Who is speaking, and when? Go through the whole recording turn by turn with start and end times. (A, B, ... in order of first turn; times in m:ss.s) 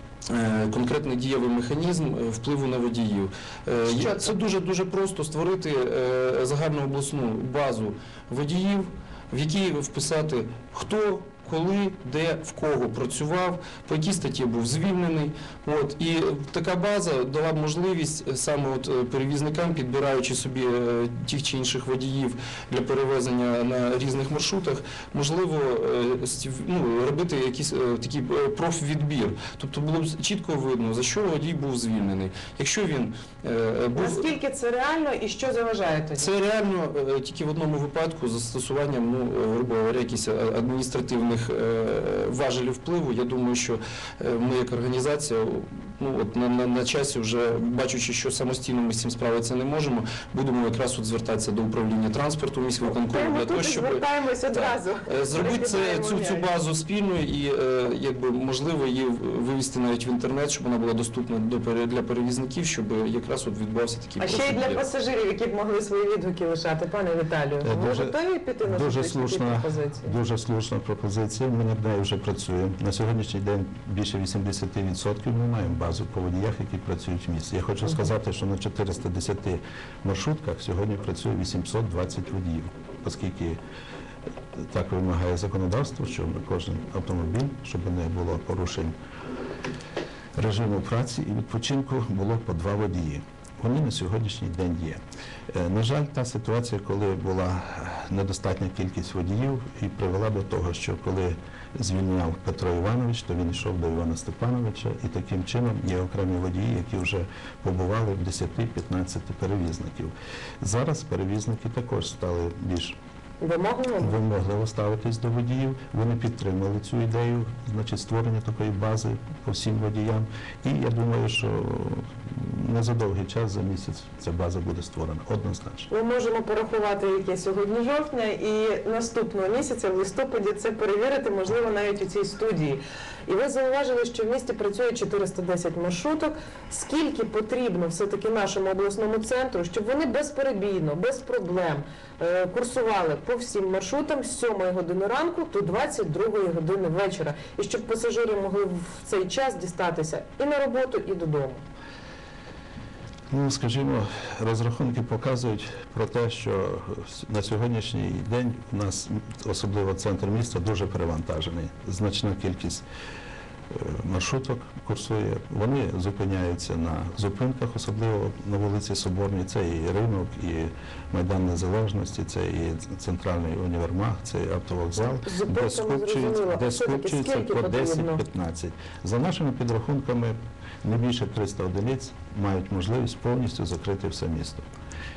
0:00.3-0:34.3 A
0:34.0-0:36.3 B
0:36.2-1:04.8 A
0:52.9-0:56.5 B
1:04.2-1:10.2 B
1:07.6-1:23.6 C
1:24.6-1:28.9 C
1:30.4-1:35.0 C
1:35.5-1:53.0 C
1:53.4-1:54.2 B
1:54.0-2:05.9 C
2:05.9-2:31.6 B
2:33.3-2:42.8 C
2:43.7-3:04.6 C
2:55.2-2:58.2 B